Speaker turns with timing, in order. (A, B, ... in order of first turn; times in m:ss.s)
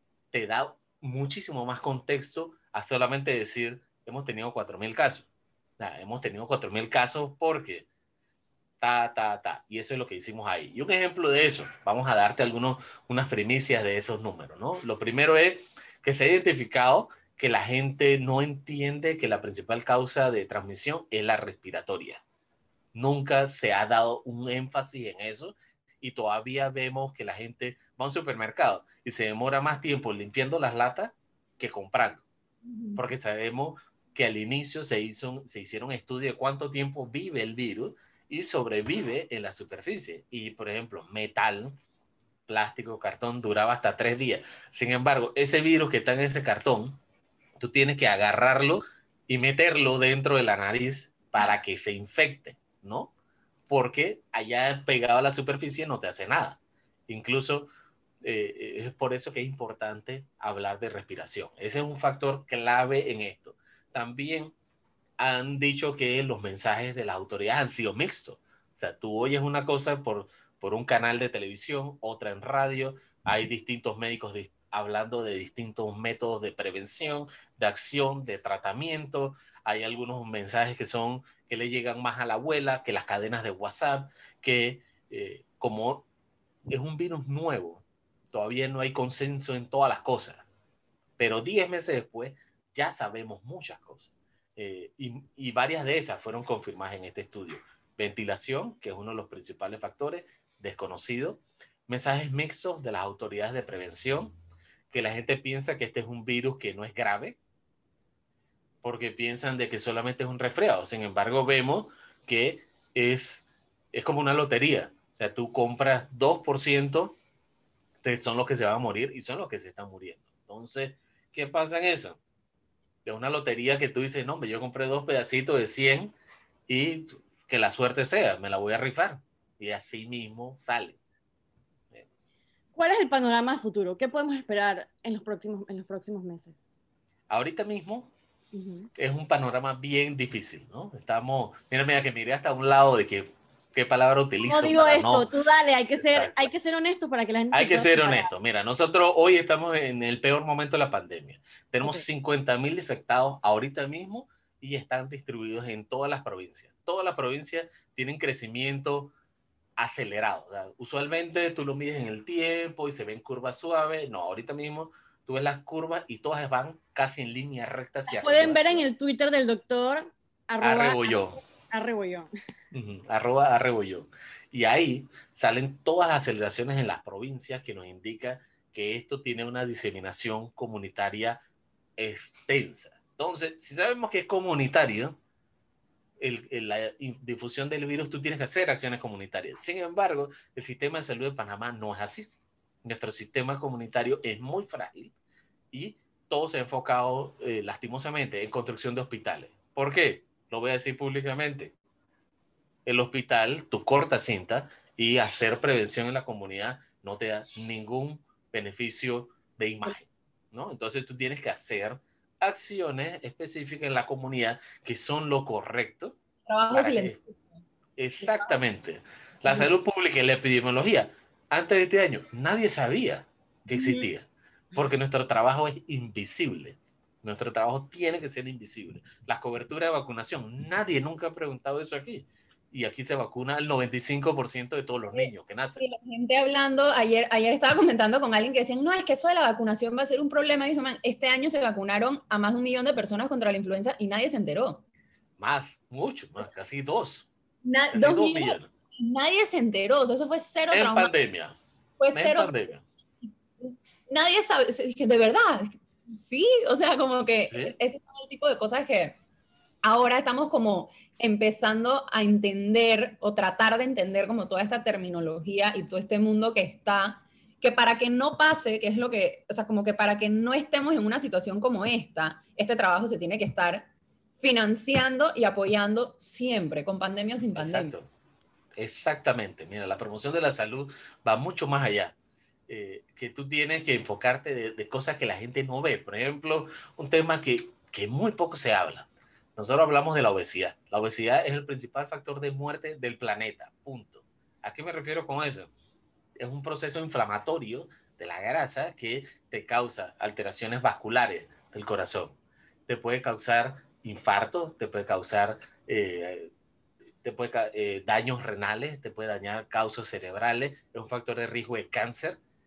0:00.3-0:05.3 A
0:05.8-0:07.9 A
0:08.8-0:22.2 A
0:22.9-0:32.2 A
0:33.0-0:41.7 A
0:42.5-0:47.0 A
0:47.6-0:53.1 A
0:53.7-0:57.7 A
0:58.2-1:04.5 A
1:05.2-1:26.0 A
1:26.7-1:30.4 A
1:31.2-1:44.3 A
1:44.9-1:47.4 A
1:48.8-1:57.2 A
1:58.0-2:02.2 A
2:03.0-2:06.1 A
2:06.7-2:11.0 A
2:12.7-2:16.6 B
2:17.3-2:18.1 A
2:18.5-2:18.9 B
2:19.0-2:25.3 A
2:24.4-2:28.3 B
2:25.9-2:26.5 A
2:27.5-2:39.1 A
2:39.8-2:48.8 A
2:48.1-2:52.3 B
2:50.6-2:51.4 A
2:52.7-3:01.4 A
3:02.0-3:05.2 A
3:06.2-3:12.3 A
3:12.8-3:15.1 A
3:15.7-3:21.7 A
3:22.8-3:36.2 A
3:36.5-3:37.4 C
3:36.7-3:37.2 A
3:38.0-3:55.8 A
3:43.7-3:44.1 C
3:55.1-4:04.8 C
4:05.4-4:07.3 A
4:07.6-4:11.1 C
4:07.9-4:08.7 A
4:10.7-4:11.6 A
4:12.0-4:12.5 C
4:12.1-4:12.8 A
4:13.2-4:19.2 C
4:17.5-4:17.7 A
4:19.8-4:33.9 C
4:34.4-4:37.9 C
4:37.6-4:38.1 A
4:38.8-4:42.2 A
4:42.7-4:55.7 A
4:56.4-5:06.5 A
5:07.2-5:12.4 A